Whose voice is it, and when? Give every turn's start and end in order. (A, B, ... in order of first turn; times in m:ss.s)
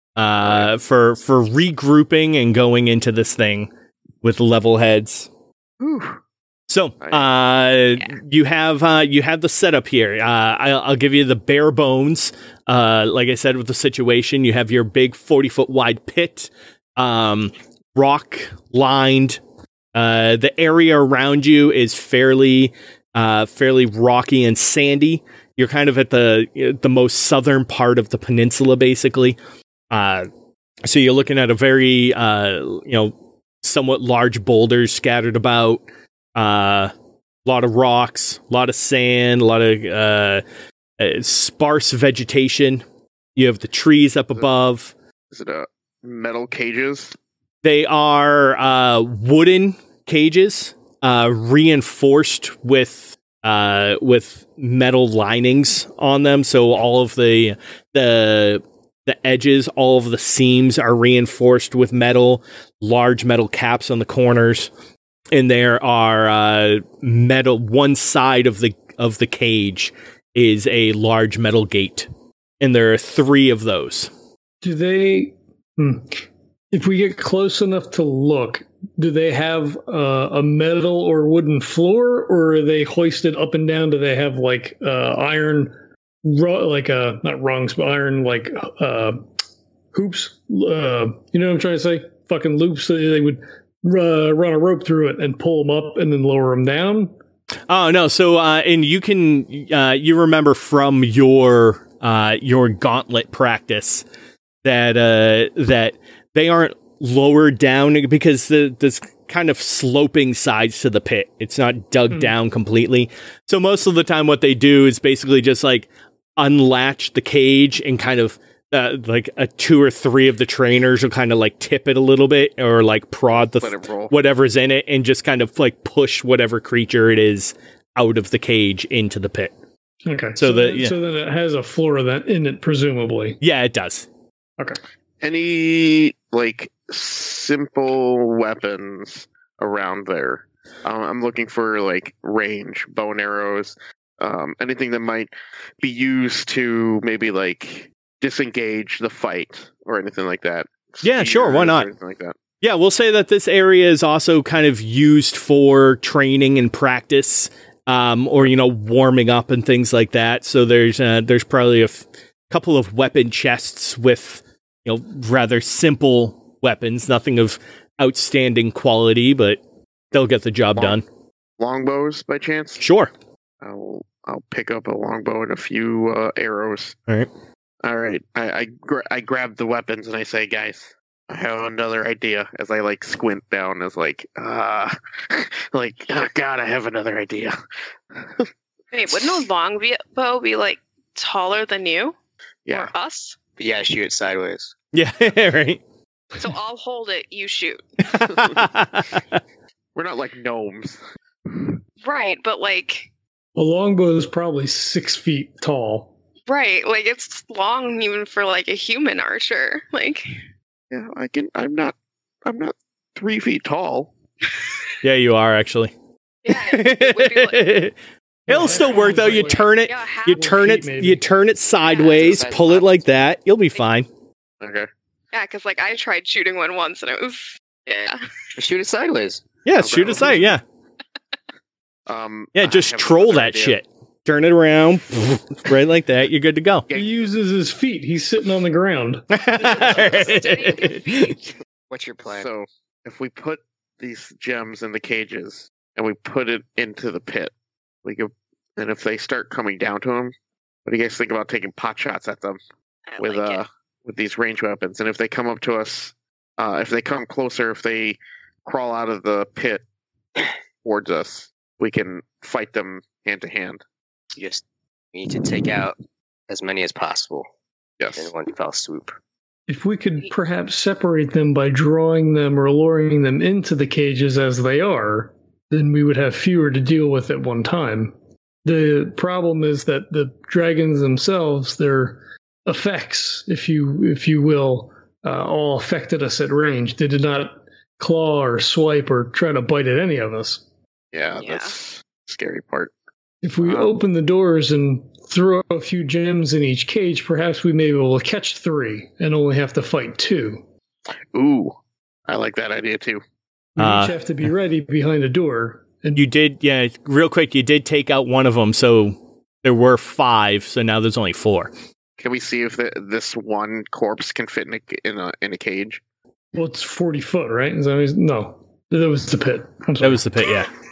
0:00.2-0:03.7 A
0:00.4-0:00.7 B
0:04.2-0:05.3 A
0:05.8-0:06.2 B
0:06.7-0:19.4 A
0:07.0-0:07.3 B
0:19.9-0:29.4 A
0:29.9-0:30.3 A
0:30.8-0:35.8 A
0:36.3-0:36.9 A
0:37.4-0:40.4 A
0:41.0-0:42.8 A
0:43.4-0:44.9 A
0:45.3-0:47.1 B
0:47.6-1:04.7 A
1:05.3-1:12.1 A
1:12.6-1:14.1 A
1:14.6-1:29.2 C
1:29.9-1:37.1 C
1:37.7-1:44.0 A
1:44.6-2:09.5 A
2:03.4-2:04.1 B
2:10.0-2:13.4 C
2:10.4-2:11.0 A
2:13.4-2:14.1 A
2:15.2-2:32.4 B
2:31.0-2:31.9 A
2:32.6-2:49.6 A
2:50.1-2:51.0 A
2:51.6-2:52.8 B
2:52.8-2:53.1 A
2:53.6-2:57.0 B
2:57.8-3:07.6 B
3:08.2-3:08.5 B
3:08.9-3:12.1 D
3:12.6-3:12.9 B
3:12.7-3:13.4 D
3:13.6-3:14.7 E
3:14.9-3:15.8 A
3:16.4-3:17.8 D
3:18.1-3:19.4 A
3:19.9-3:21.7 B
3:22.0-3:23.1 D
3:23.6-3:26.1 C
3:26.5-3:30.4 D
3:30.9-3:34.1 B
3:35.0-3:35.9 A
3:36.4-3:37.8 D
3:36.5-3:37.9 A
3:38.5-3:39.7 C
3:38.5-3:44.1 A
3:38.6-3:40.5 D
3:40.3-3:41.2 C
3:41.9-3:42.4 D
3:42.0-3:43.0 E
3:44.6-3:44.9 B
3:45.3-3:48.3 D
3:48.6-3:49.4 E
3:49.6-3:50.6 A
3:49.8-3:50.5 B
3:52.1-3:53.8 B
3:52.5-3:56.8 A
3:56.9-3:59.2 C
3:59.3-4:01.4 A
3:59.9-4:00.9 E
4:00.2-4:01.3 D
4:01.9-4:02.5 E
4:02.2-4:07.5 B
4:08.0-4:10.3 B
4:10.8-4:12.6 B
4:13.1-4:13.6 D
4:13.2-4:19.8 B
4:20.8-4:23.8 B
4:24.3-4:26.0 E
4:26.5-4:27.5 E
4:28.0-4:28.3 B
4:28.2-4:29.2 E
4:29.7-4:50.6 C
4:51.1-4:52.9 B
4:51.4-4:51.7 D
4:53.4-5:00.6 C
4:53.6-4:53.9 B
5:01.3-5:03.2 B
5:03.8-5:06.2 C
5:03.8-5:04.2 A
5:06.2-5:11.7 A
5:12.2-5:16.0 B
5:16.5-5:20.2 C
5:20.0-5:20.7 A